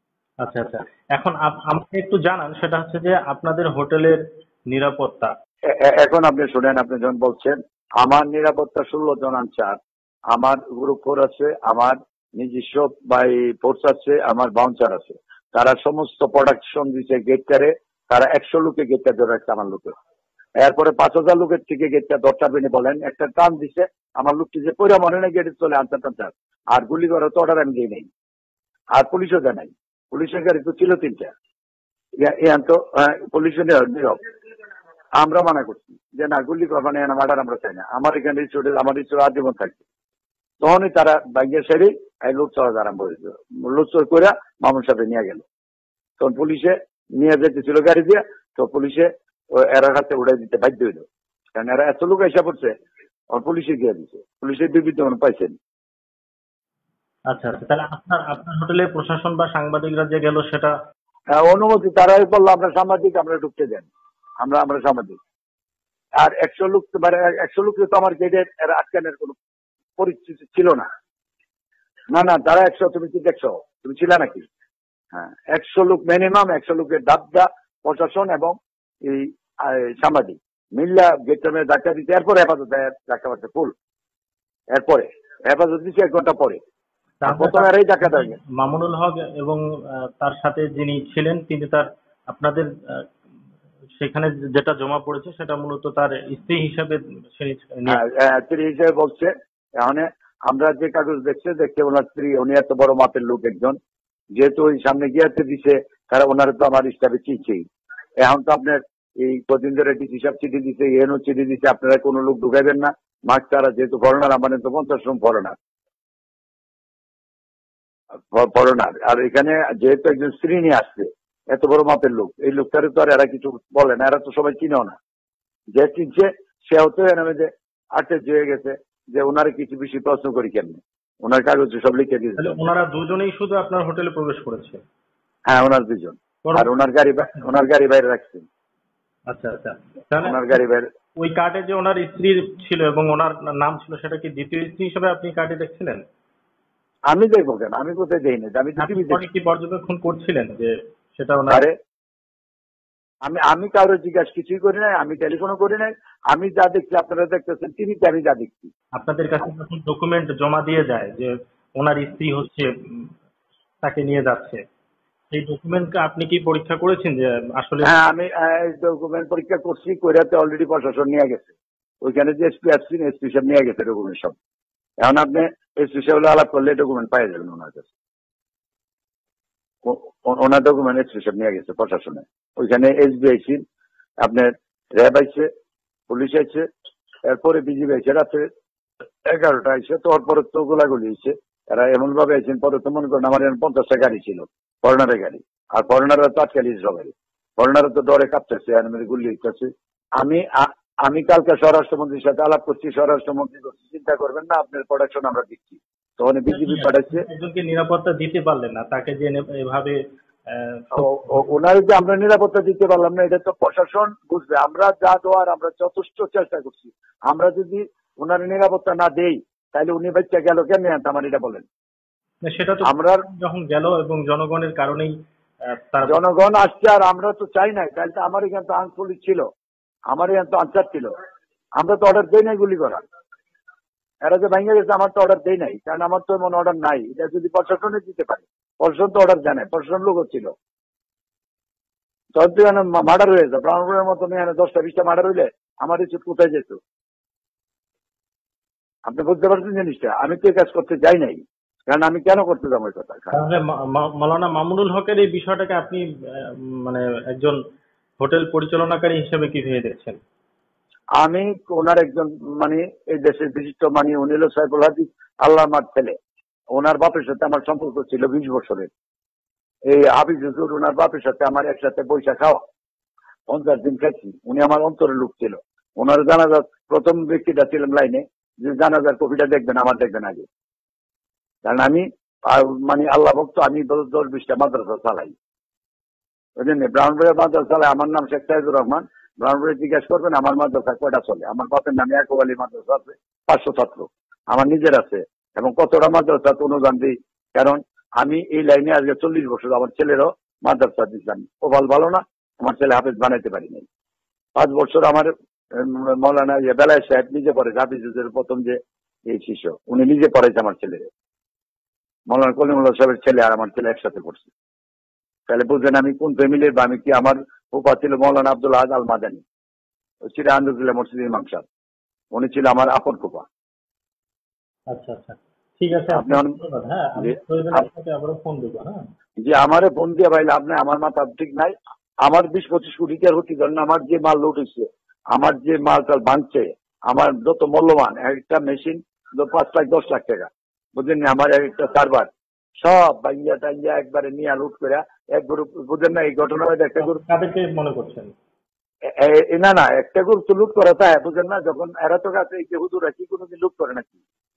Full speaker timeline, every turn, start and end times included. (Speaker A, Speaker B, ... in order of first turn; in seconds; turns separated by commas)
Speaker A: 0.4-5.3, Speaker B: 5.7-9.8, Speaker B: 10.3-19.9, Speaker B: 20.6-28.1, Speaker B: 28.9-31.3, Speaker B: 32.2-34.2, Speaker B: 35.2-39.8, Speaker B: 40.6-45.5, Speaker B: 46.2-52.7, Speaker B: 53.3-55.5, Speaker A: 57.3-60.7, Speaker B: 61.3-63.9, Speaker B: 64.4-65.2, Speaker B: 66.2-69.4, Speaker B: 70.0-70.9, Speaker B: 72.1-74.5, Speaker B: 75.1-83.7, Speaker B: 84.7-86.6, Speaker A: 87.2-93.0, Speaker B: 87.3-88.3, Speaker A: 94.0-98.0, Speaker B: 97.9-103.8, Speaker B: 104.3-107.6, Speaker B: 108.2-115.6, Speaker B: 118.3-125.0, Speaker B: 125.8-132.6, Speaker A: 132.4-134.8, Speaker B: 135.5-138.5, Speaker A: 136.4-136.7, Speaker A: 139.3-140.6, Speaker B: 140.2-140.9, Speaker A: 141.2-146.0, Speaker B: 147.1-149.2, Speaker A: 148.8-151.7, Speaker B: 153.2-158.7, Speaker A: 159.0-163.1, Speaker A: 163.8-164.6, Speaker A: 165.3-167.9, Speaker B: 167.8-171.5, Speaker B: 172.0-174.4, Speaker B: 175.0-177.9, Speaker B: 179.8-183.6, Speaker B: 184.2-185.5, Speaker B: 186.1-186.7, Speaker B: 187.3-188.5, Speaker B: 189.3-207.3, Speaker A: 206.5-210.0, Speaker A: 210.5-211.4, Speaker B: 210.9-221.7, Speaker A: 222.4-225.1, Speaker B: 222.8-223.2, Speaker A: 225.7-226.2, Speaker B: 226.1-229.5, Speaker B: 230.1-231.1, Speaker B: 231.8-233.0, Speaker B: 234.2-240.5, Speaker B: 242.3-246.8, Speaker B: 249.1-253.4, Speaker A: 253.3-257.6, Speaker A: 258.2-260.2, Speaker B: 261.2-266.2, Speaker B: 266.7-268.9, Speaker B: 269.9-272.6, Speaker B: 273.5-280.5, Speaker B: 281.6-285.3, Speaker B: 286.6-303.9, Speaker B: 304.6-308.8, Speaker B: 309.3-311.1, Speaker B: 312.3-314.5, Speaker B: 315.5-319.4, Speaker B: 320.3-321.6, Speaker B: 322.3-323.5, Speaker A: 324.9-329.0, Speaker B: 326.1-326.6, Speaker B: 327.2-327.9, Speaker B: 329.4-331.7, Speaker B: 332.2-342.3, Speaker B: 342.8-347.2, Speaker A: 347.0-348.3, Speaker B: 349.1-354.1